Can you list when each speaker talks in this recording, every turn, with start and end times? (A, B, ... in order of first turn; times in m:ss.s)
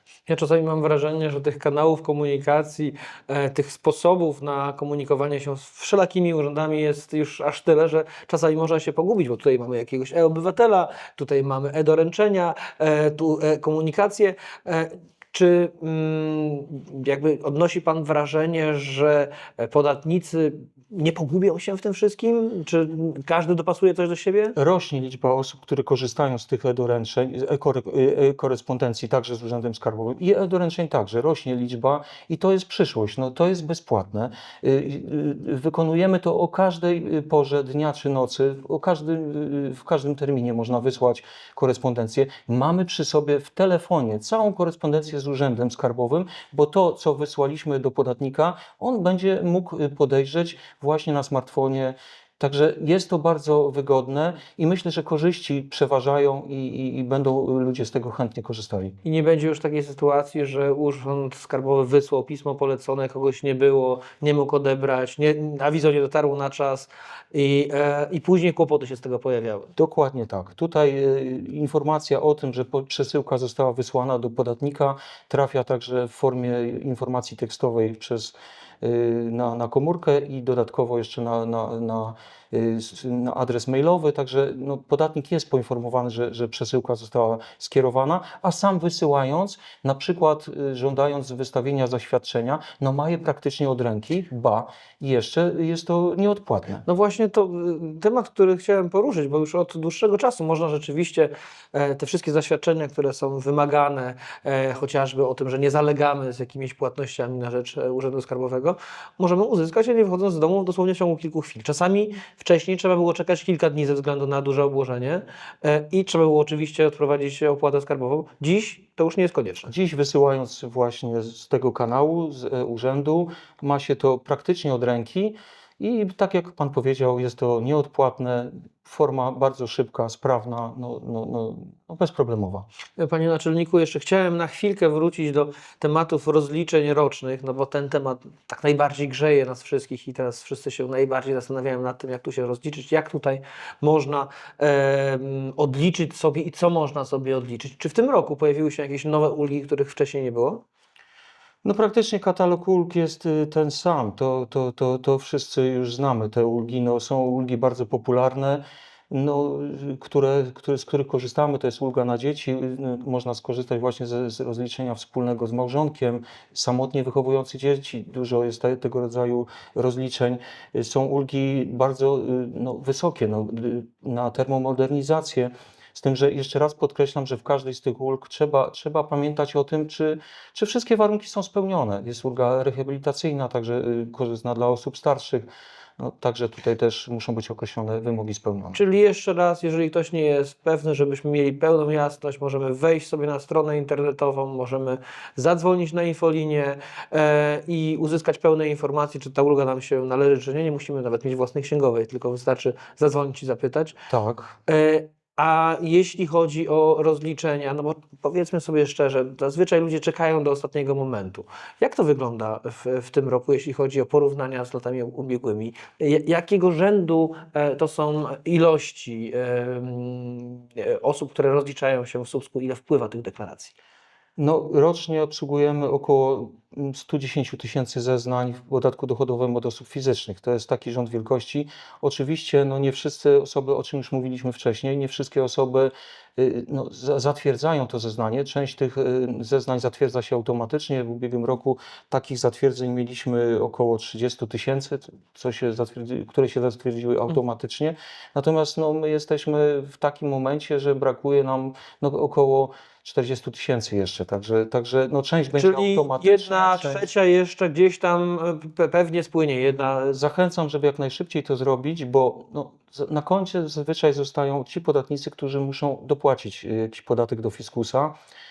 0:00.3-0:24.6 A
0:24.6-0:59.0 B
0:59.0-1:09.7 A
1:09.8-1:36.8 B
1:36.9-1:59.7 A
1:59.7-2:12.7 B
2:13.0-2:30.6 A
2:31.6-3:05.5 B
3:06.0-3:08.8 B
3:08.7-3:24.0 A
3:24.1-3:24.6 B
3:24.7-3:43.8 A
3:44.4-4:17.1 B
4:15.6-4:20.1 A
4:20.1-4:28.2 B